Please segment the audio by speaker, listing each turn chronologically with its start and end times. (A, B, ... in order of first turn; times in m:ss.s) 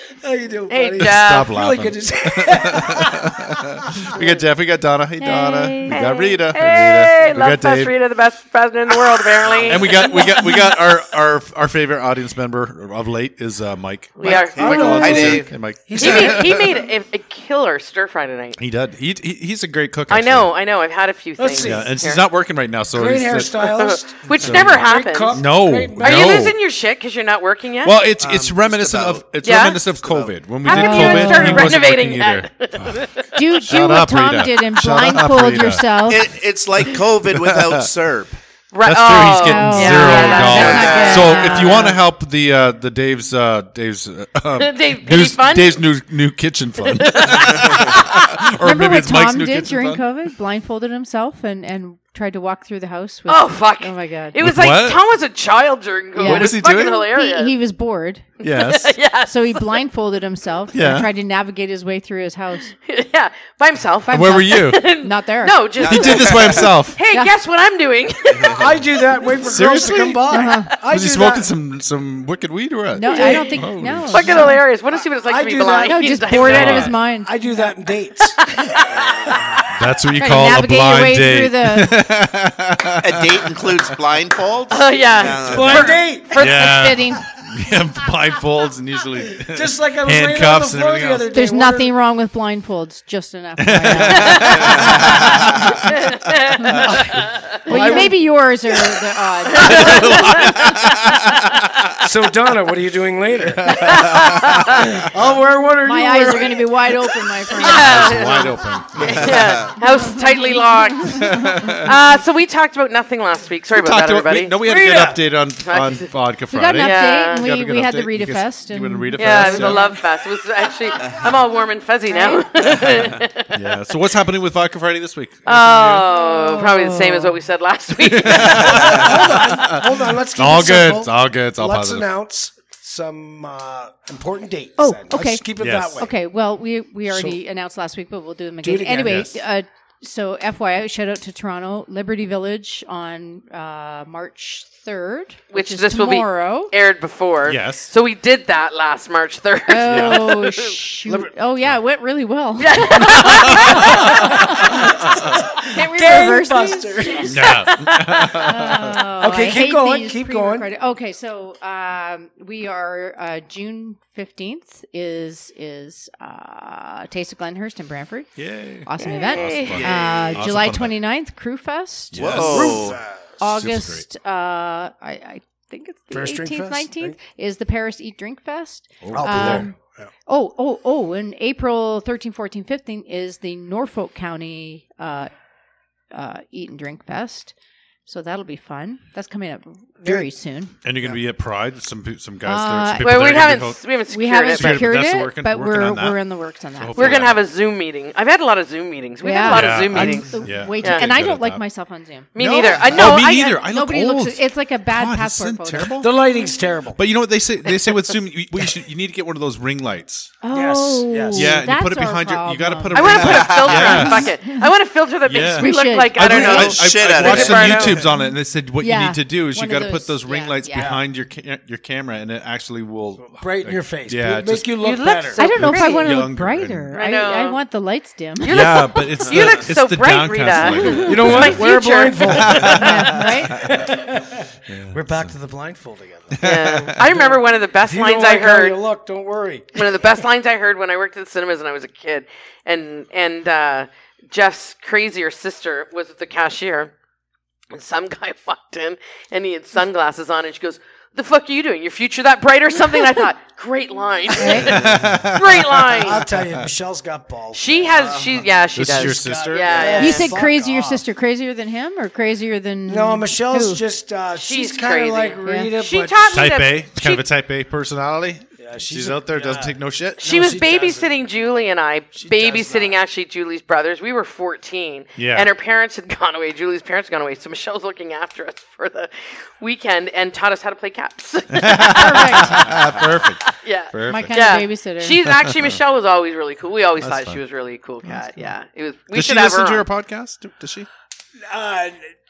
0:00.2-0:04.1 A
0:00.7-0:01.5 B
0:01.0-0:07.9 C
0:05.2-0:06.0 D
0:05.9-0:10.4 B
0:09.6-0:09.9 E
0:09.6-0:16.7 C
0:14.2-0:15.4 B
0:14.2-0:16.8 A
0:14.6-0:15.5 E
0:15.9-0:18.6 B
0:18.6-0:20.5 C
0:20.1-0:22.2 B
0:21.4-0:21.9 A
0:21.6-0:23.7 C
0:22.9-0:26.5 A
0:23.6-0:25.4 B
0:24.4-0:26.6 C
0:26.0-0:28.0 B
0:27.8-0:33.1 C
0:28.2-0:29.3 E
0:29.4-0:29.8 B
0:29.9-0:30.3 E
0:30.6-0:31.7 D
0:30.6-0:33.6 B
0:33.3-0:36.3 D
0:33.7-0:36.1 C
0:36.0-0:38.4 E
0:36.8-0:37.9 C
0:38.7-0:41.8 B
0:38.8-0:50.0 C
0:39.4-0:42.0 D
0:40.4-0:41.6 E
0:44.6-0:45.8 B
0:46.8-0:48.2 B
0:48.6-0:54.4 D
0:53.3-0:57.5 B
0:54.4-0:55.0 C
0:56.2-0:58.3 D
0:56.2-0:57.0 C
0:58.4-0:59.8 B
0:58.4-0:59.0 C
0:59.3-1:02.7 D
1:00.7-1:01.1 C
1:02.7-1:09.3 B
1:04.1-1:07.3 D
1:04.1-1:04.9 C
1:05.8-1:07.0 C
1:05.9-1:06.6 A
1:08.4-1:08.7 E
1:08.5-1:11.5 A
1:09.4-1:14.5 C
1:10.3-1:10.7 D
1:12.9-1:14.6 D
1:13.1-1:13.5 B
1:13.1-1:13.5 A
1:14.1-1:17.0 B
1:15.2-1:19.6 A
1:15.8-1:17.7 D
1:16.4-1:16.9 C
1:18.2-1:19.6 B
1:19.7-1:24.0 C
1:20.2-1:22.0 D
1:23.0-1:26.0 E
1:24.7-1:26.0 B
1:25.4-1:26.4 A
1:26.3-1:27.2 D
1:26.4-1:31.3 C
1:29.5-1:31.9 A
1:31.3-1:35.5 D
1:33.6-1:36.0 C
1:34.2-1:34.7 B
1:34.8-1:35.2 E
1:35.9-1:37.2 B
1:36.7-1:37.0 C
1:36.8-1:38.3 A
1:37.7-1:40.3 D
1:39.5-1:41.6 B
1:39.6-1:41.1 C
1:42.0-1:47.2 A
1:43.5-1:44.9 C
1:43.7-1:44.9 B
1:45.8-1:48.3 D
1:47.5-1:54.6 B
1:47.6-1:49.6 C
1:49.0-1:49.7 E
1:49.8-1:51.8 D
1:51.0-1:51.9 C
1:53.8-1:59.9 C
1:54.6-1:55.2 A
1:55.6-1:56.1 B
1:56.5-2:00.0 D
1:56.8-1:57.4 B
1:59.2-2:03.6 B
2:02.1-2:02.4 D
2:03.5-2:06.1 C
2:05.4-2:09.3 B
2:06.1-2:07.3 D
2:08.0-2:12.1 C
2:08.4-2:16.1 A
2:14.8-2:15.4 D
2:15.6-2:16.1 C
2:16.0-2:26.7 D
2:17.1-2:17.4 A
2:18.6-2:19.3 A
2:19.0-2:19.3 C
2:25.5-2:30.8 B
2:27.4-2:27.9 C
2:29.7-2:37.5 D
2:29.8-2:30.2 C
2:32.6-2:34.7 B
2:33.4-2:34.2 C
2:33.8-2:37.4 A
2:34.8-2:35.4 C
2:37.2-2:39.0 C
2:37.4-2:38.4 B
2:38.4-2:52.7 D
2:38.7-2:40.7 A
2:48.4-2:51.0 C
2:49.0-2:49.9 B
2:49.7-2:50.4 E
2:52.1-2:54.0 C
2:52.2-2:53.0 E
2:52.3-2:53.2 A
2:53.4-3:05.3 D
2:56.1-2:57.2 A
2:59.0-2:59.7 C
2:59.1-3:00.1 A
3:06.1-3:07.5 D
3:08.1-3:10.7 D
3:10.0-3:10.3 A
3:10.8-3:13.8 C
3:12.4-3:13.4 D
3:13.0-3:14.9 B
3:14.1-3:17.3 D
3:14.5-3:16.2 C
3:16.8-3:17.4 C
3:16.9-3:21.0 B
3:19.2-3:22.3 D
3:19.5-3:21.6 C
3:22.3-3:23.6 B
3:22.4-3:26.1 C
3:22.9-3:26.0 D
3:26.0-3:27.0 A
3:27.0-3:30.4 C
3:30.4-3:34.7 D
3:30.5-3:31.6 A
3:31.3-3:34.3 C
3:32.9-3:38.1 B
3:33.1-3:34.1 E
3:35.3-3:44.7 C
3:35.6-3:36.2 D
3:36.3-3:38.0 E
3:37.7-3:38.1 A
3:38.1-3:40.9 D
3:40.7-3:41.0 A
3:43.3-3:45.5 A
3:44.8-3:46.1 B
3:45.4-3:48.5 D
3:45.5-3:46.9 C
3:46.9-3:47.6 B
3:48.4-3:53.2 B
3:48.5-3:51.7 C
3:50.6-3:51.2 D
3:51.0-3:59.9 A
3:52.3-3:53.8 C
3:52.8-3:53.6 D
3:54.7-3:55.3 C
3:56.4-3:57.0 C
3:56.4-3:58.8 B
3:59.8-4:06.9 B
4:07.7-4:16.3 B
4:14.4-4:14.8 D
4:14.5-4:15.2 A
4:14.6-4:16.7 C
4:15.9-4:21.0 A
4:17.5-4:20.3 B
4:18.8-4:20.0 C
4:20.0-4:23.8 D
4:22.9-4:26.3 A
4:24.4-4:27.2 B
4:25.4-4:25.7 D
4:26.3-4:30.5 C
4:28.6-4:31.1 A
4:30.2-4:42.7 B
4:32.2-4:33.0 A
4:35.2-4:35.5 C
4:41.5-4:44.4 C
4:41.8-4:42.6 D
4:43.5-4:49.9 B
4:44.1-4:45.2 D
4:45.3-4:45.8 C
4:47.0-4:47.4 C
4:48.0-4:48.5 C
4:49.1-4:50.9 C
4:51.5-4:52.1 A